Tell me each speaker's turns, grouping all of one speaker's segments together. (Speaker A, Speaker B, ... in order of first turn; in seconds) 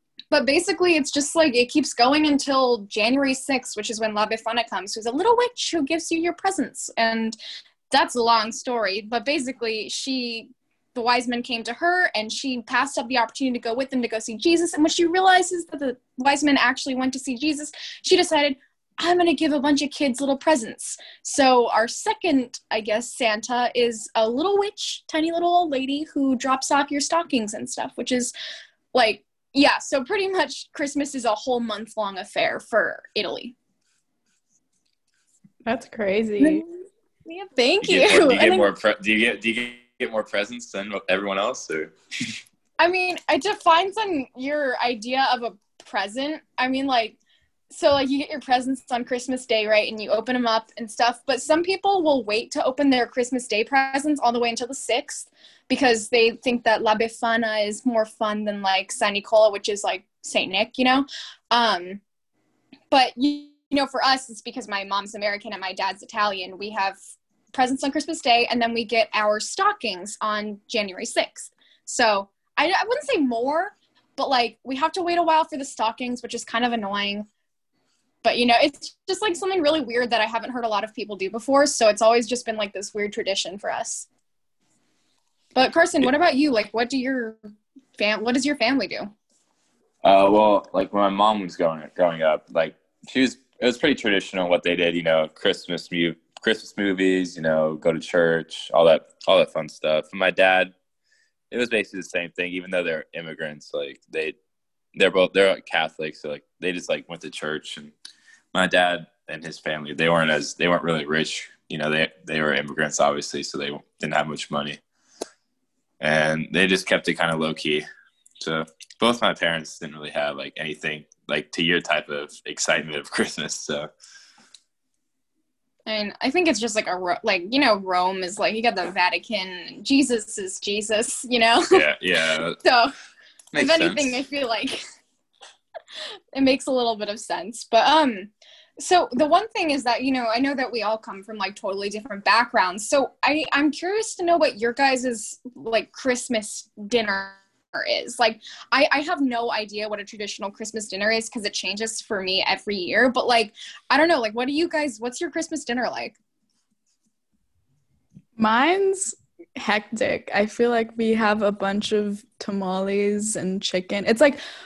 Speaker A: 0.3-7.4, 7.9-28.3, 28.9-33.5, 36.4-36.6, 37.2-38.7, 42.8-47.2, 47.7-62.0, 62.9-67.0, 67.5-77.3, 78.2-84.1, 85.5-87.4, 88.0-89.1, 125.8-131.8, 132.6-132.9, 133.6-134.8, 136.3-156.2
Speaker B: 35.6-36.6, 158.4-164.4
Speaker C: 37.8-41.9, 90.0-100.7, 101.5-104.3, 105.0-107.9, 108.5-114.8, 116.0-117.8, 118.4-123.9, 131.7-132.6, 133.5-134.2